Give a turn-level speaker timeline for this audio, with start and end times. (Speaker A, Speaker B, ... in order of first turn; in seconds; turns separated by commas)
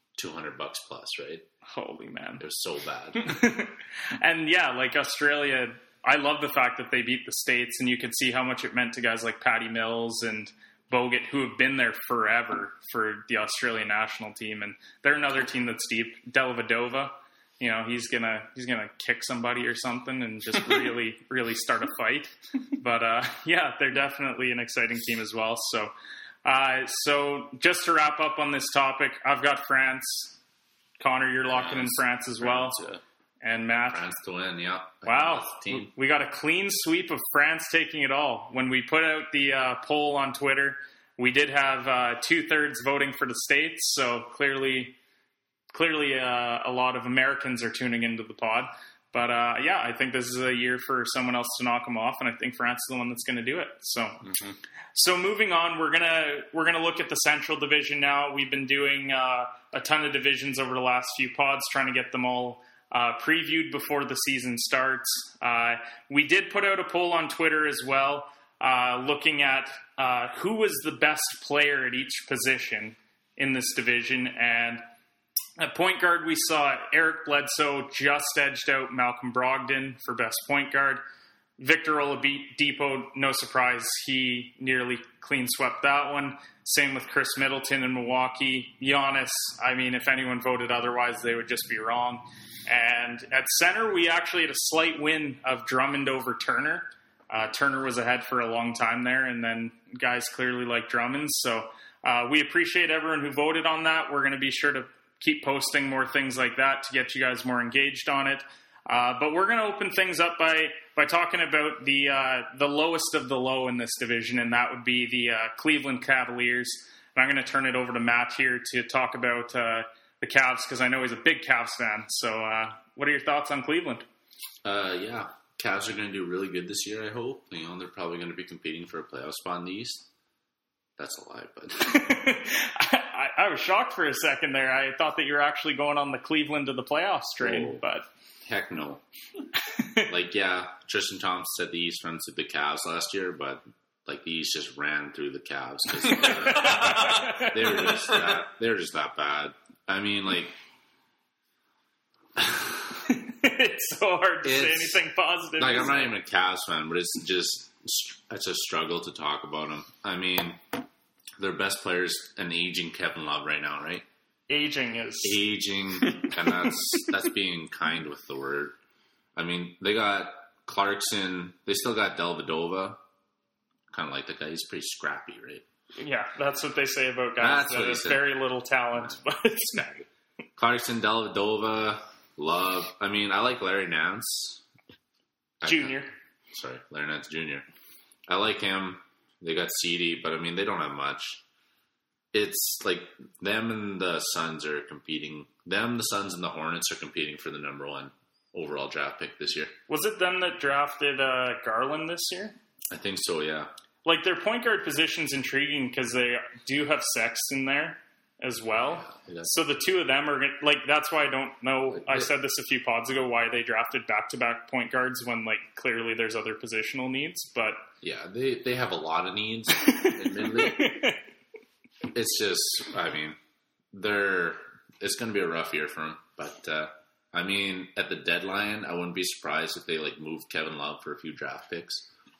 Speaker A: 0.2-1.5, Speaker B: 1.7-2.4, Speaker A: 2.4-3.4, Speaker B: 3.2-25.9, Speaker B: 26.4-30.4, Speaker B: 31.0-32.8, Speaker C: 31.5-33.0, Speaker B: 33.4-34.1, Speaker A: 33.9-35.9, Speaker B: 35.0-45.0, Speaker B: 45.7-54.2, Speaker C: 54.3-54.6, Speaker B: 55.0-74.8, Speaker B: 75.6-81.0, Speaker B: 81.6-124.0, Speaker A: 124.7-130.1, Speaker A: 131.0-132.2, Speaker B: 131.9-138.1, Speaker A: 137.4-137.8, Speaker A: 138.4-139.0, Speaker B: 139.8-140.1, Speaker A: 140.1-150.6, Speaker B: 146.2-148.2, Speaker C: 146.6-147.2, Speaker A: 152.4-153.0, Speaker B: 153.1-156.1, Speaker A: 154.4-155.0, Speaker A: 155.6-160.8, Speaker A: 161.4-164.1, Speaker B: 164.5-165.4, Speaker A: 165.2-168.8, Speaker A: 169.4-173.0, Speaker A: 173.9-175.7, Speaker B: 176.0-179.8, Speaker A: 177.4-178.3, Speaker A: 178.9-184.6, Speaker A: 185.6-187.7, Speaker B: 185.6-186.1, Speaker A: 188.3-191.4, Speaker A: 192.3-199.7, Speaker B: 199.9-202.6, Speaker A: 202.9-203.7, Speaker B: 204.1-217.9, Speaker A: 208.9-209.6, Speaker A: 211.9-212.3, Speaker A: 218.0-221.0, Speaker B: 219.8-221.2, Speaker A: 222.1-223.4, Speaker A: 223.9-232.1